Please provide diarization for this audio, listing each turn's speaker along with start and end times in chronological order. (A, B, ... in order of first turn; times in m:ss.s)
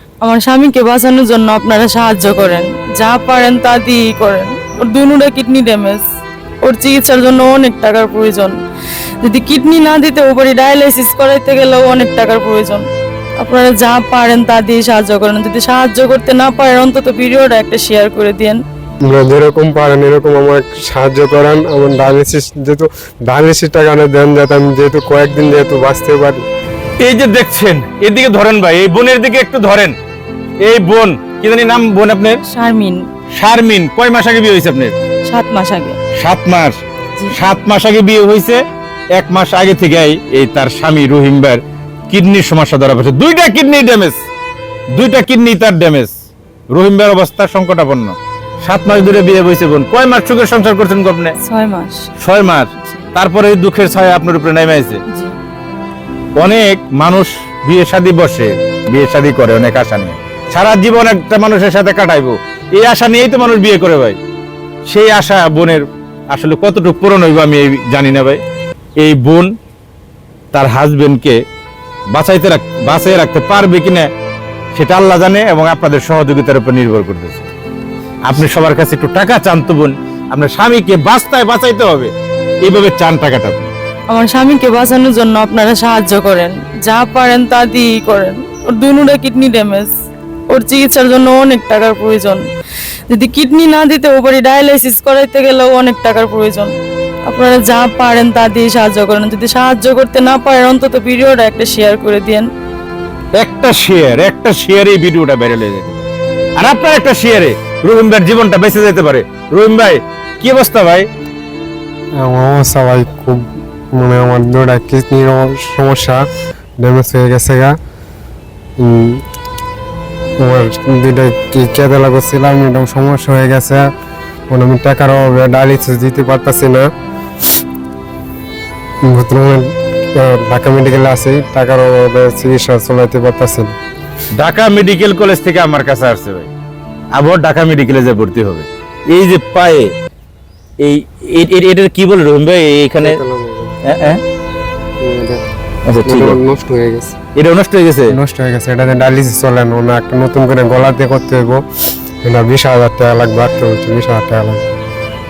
0:00.2-0:06.0 A
0:06.6-0:08.5 A
0:09.2-0:12.8 A
0:13.4-0:18.6 A
0:19.1-0:26.4 B
0:27.0-0:30.0 C
0:30.6-0:32.4 C
0:32.4-0:33.1 A
0:33.3-0:35.0 C
0:35.3-0:36.0 A
0:36.2-0:36.8 C
0:37.3-0:38.6 C
0:39.2-0:44.2 C
0:44.9-0:46.1 C
0:46.7-0:51.4 C
0:51.4-0:52.1 A
0:52.2-0:55.0 C
0:52.8-0:53.1 A
0:56.4-1:04.2 C
1:04.9-1:08.4 C
1:09.0-1:09.5 C
1:10.5-1:11.4 C
1:12.1-1:14.1 C
1:14.8-1:17.5 C
1:18.2-1:22.1 C
1:22.6-1:23.7 C
1:24.1-1:29.9 A
1:30.5-1:32.4 A
1:33.1-1:36.7 A
1:37.2-1:42.5 A
1:43.3-1:51.1 C
1:52.2-1:56.2 B
1:56.8-1:57.8 B
1:58.8-1:59.2 B
2:00.4-2:03.9 B
2:04.5-2:06.8 B
2:09.1-2:13.7 B
2:14.4-2:16.5 C
2:17.1-2:19.9 C
2:20.8-2:23.2 C
2:23.0-2:23.8 B
2:23.8-2:24.2 C
2:25.0-2:25.4 B
2:25.9-2:26.4 C
2:26.0-2:27.2 B
2:27.4-2:28.1 C
2:28.1-2:31.6 B
2:32.2-2:34.6 B